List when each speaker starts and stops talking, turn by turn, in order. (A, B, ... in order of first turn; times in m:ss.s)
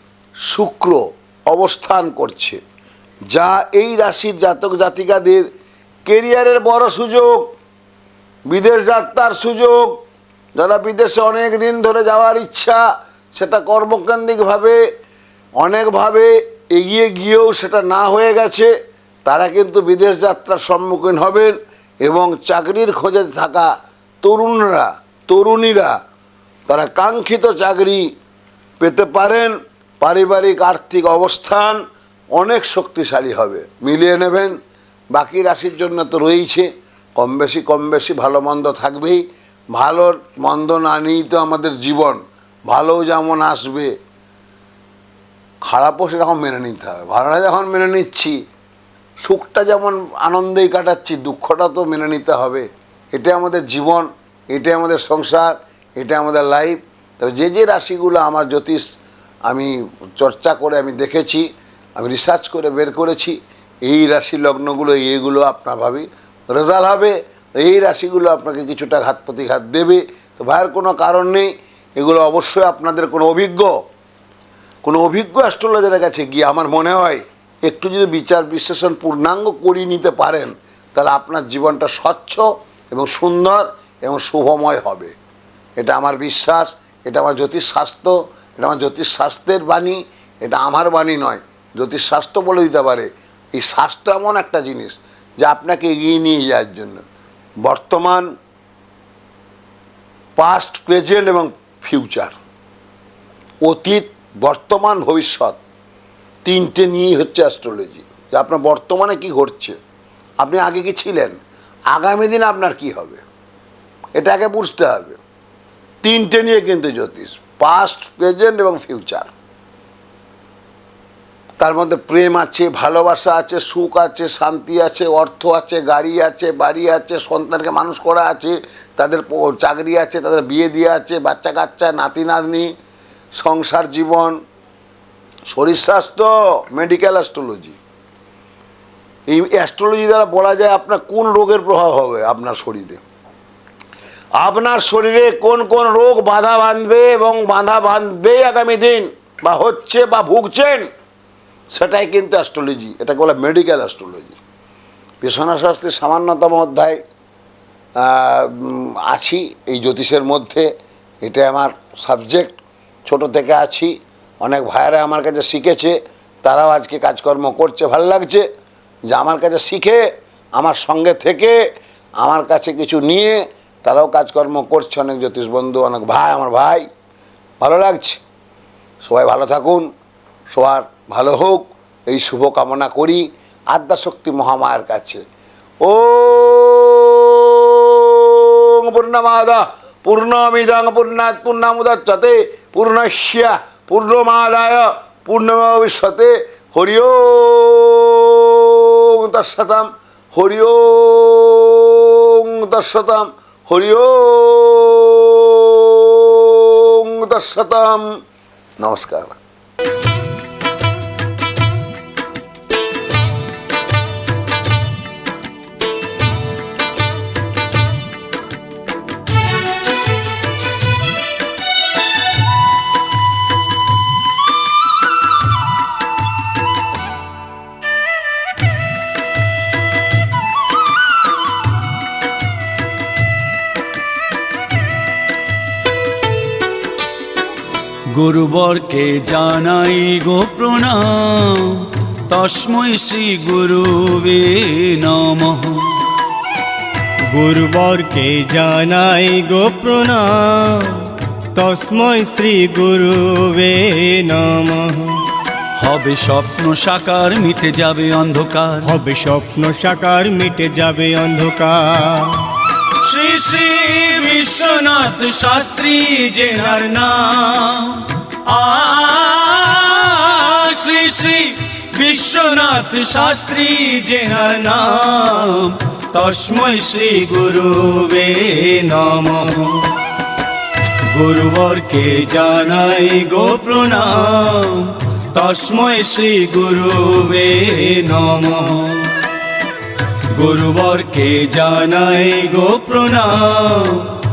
0:00.5-0:02.6 A
0:03.3-0:05.5 A
0:06.0-0:07.5 A
0:08.5-0:10.0 A
0:10.6-0:12.8 A
0:13.3-0:14.8 A
0:15.6-0:18.7 A
0:19.2-0:23.7 A
0:24.2-0:26.0 A
0:26.7-0:28.1 A
0:28.8-0:31.8 A
0:32.4-0:34.6 A
0:35.1-0:43.9 A
0:45.6-0:48.4 A
0:49.2-0:58.8 A
0:59.5-1:01.5 A
1:02.0-1:13.8 A
1:14.8-1:25.1 A
1:25.8-1:37.0 A
1:37.6-1:38.3 A
1:40.4-1:42.4 A
1:43.6-1:45.6 A
1:46.4-1:49.8 A
1:50.4-1:51.4 A
1:51.9-1:53.2 A
1:54.2-1:55.2 A
1:56.0-1:59.3 A
2:01.6-2:12.7 A
2:13.4-2:14.4 A
2:15.5-2:17.8 A
2:19.3-2:23.0 A
2:24.4-2:30.9 A
2:31.7-2:34.4 A
2:35.2-2:37.0 A
2:38.0-2:40.7 A
2:41.2-2:48.4 A
2:49.1-2:50.0 A
2:50.6-2:51.6 A
2:52.2-2:56.9 A
2:57.6-2:58.2 A
2:59.0-2:59.9 A
3:00.5-3:05.2 A
3:05.8-3:28.1 A
3:28.8-3:29.4 A
3:58.1-4:06.0 B
4:07.3-4:15.2 C
4:15.8-4:18.9 B
4:18.8-4:22.3 C
4:23.0-4:37.2 B
4:34.5-4:34.9 C
4:36.9-4:39.8 C
4:41.1-4:41.7 C
4:41.3-4:42.9 B
4:42.2-4:44.7 C
4:44.7-4:46.2 B
4:45.4-4:49.0 C
4:50.4-4:50.9 C
4:50.8-4:54.0 B
4:51.5-4:53.7 C